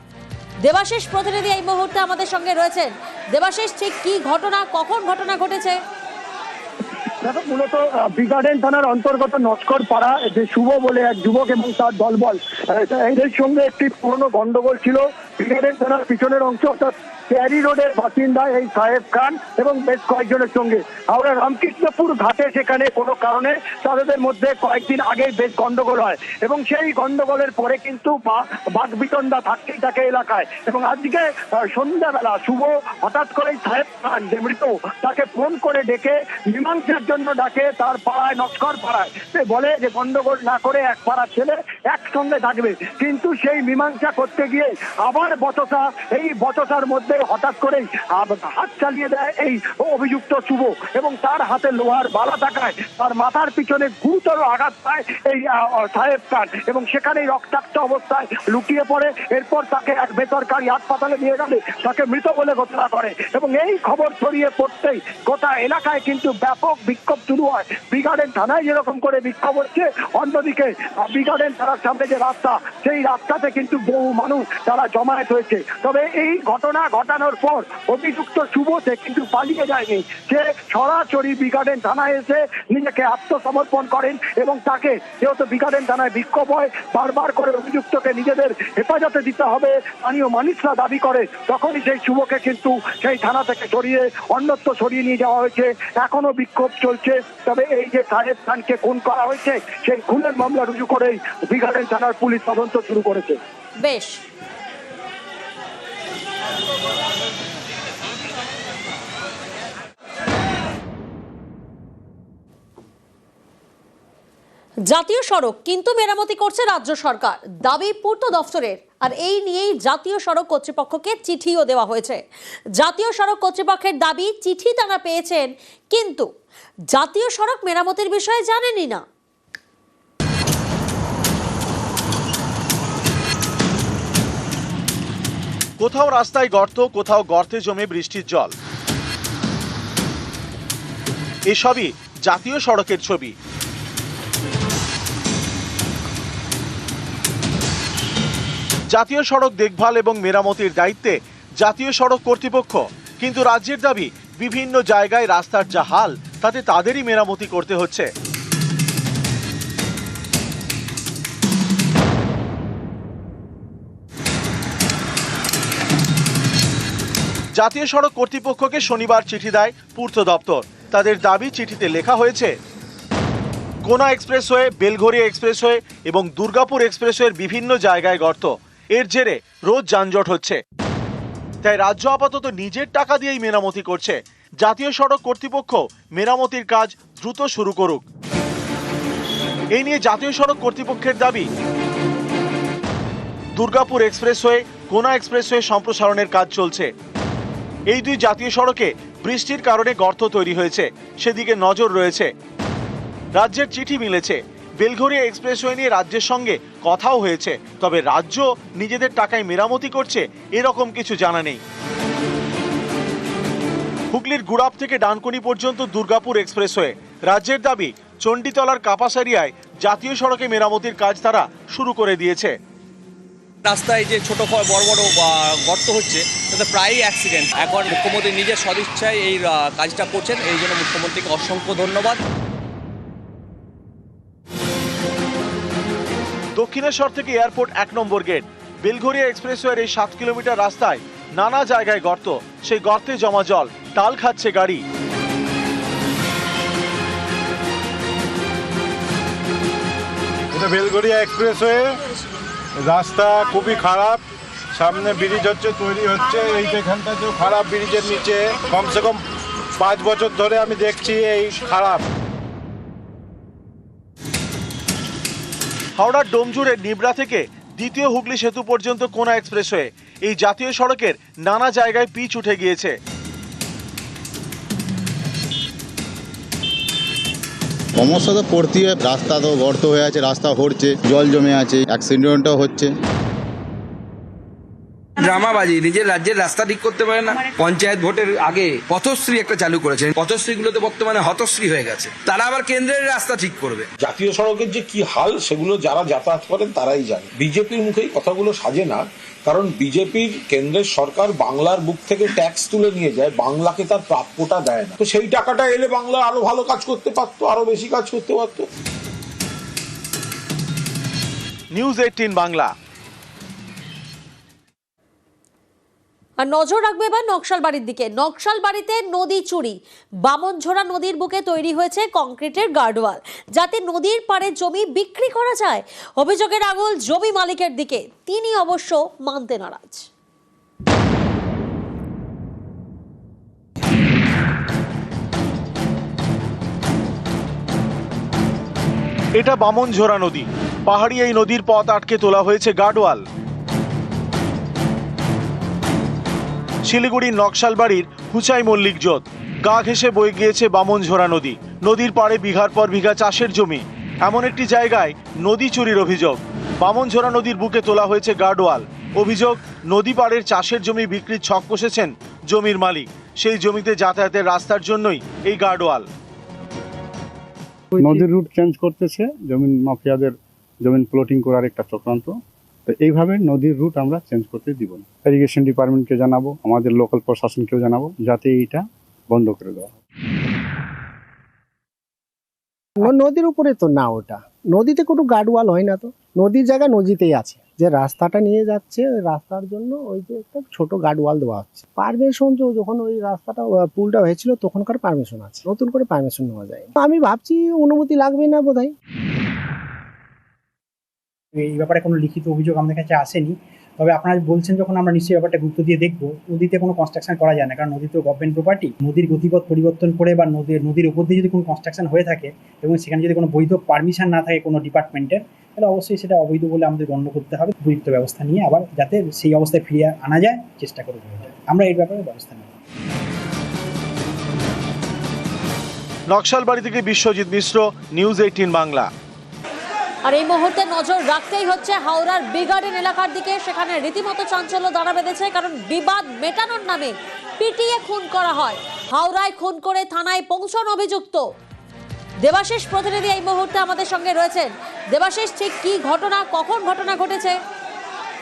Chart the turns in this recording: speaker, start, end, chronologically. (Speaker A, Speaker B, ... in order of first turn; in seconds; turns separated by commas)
Speaker A: 0.6-5.8, Speaker B: 7.2-103.4, Speaker A: 103.8-104.2, Speaker A: 114.9-122.2, Speaker A: 122.8-126.3, Speaker A: 126.9-129.0, Speaker C: 135.8-138.5, Speaker C: 141.5-143.3, Speaker C: 148.9-158.1, Speaker C: 167.6-172.5, Speaker C: 173.8-180.6, Speaker C: 181.6-188.1, Speaker C: 189.7-191.5, Speaker C: 193.6-196.9, Speaker C: 197.9-202.3, Speaker C: 203.3-211.6, Speaker C: 214.1-222.5, Speaker D: 223.7-232.2, Speaker C: 236.6-244.8, Speaker E: 250.5-252.0, Speaker E: 252.8-254.2, Speaker E: 254.7-259.2, Speaker E: 259.8-262.1, Speaker C: 266.0-272.9, Speaker F: 278.1-282.9, Speaker G: 285.2-293.9, Speaker H: 294.0-308.7, Speaker C: 311.7-312.7, Speaker A: 316.4-330.1, Speaker C: 339.4-343.2, Speaker C: 346.9-366.1, Speaker I: 368.0-368.2, Speaker J: 368.0-372.3, Speaker J: 372.9-379.9, Speaker K: 383.0-398.9, Speaker I: 401.6-422.7, Speaker C: 426.3-429.1, Speaker A: 430.2-441.4, Speaker A: 442.4-447.6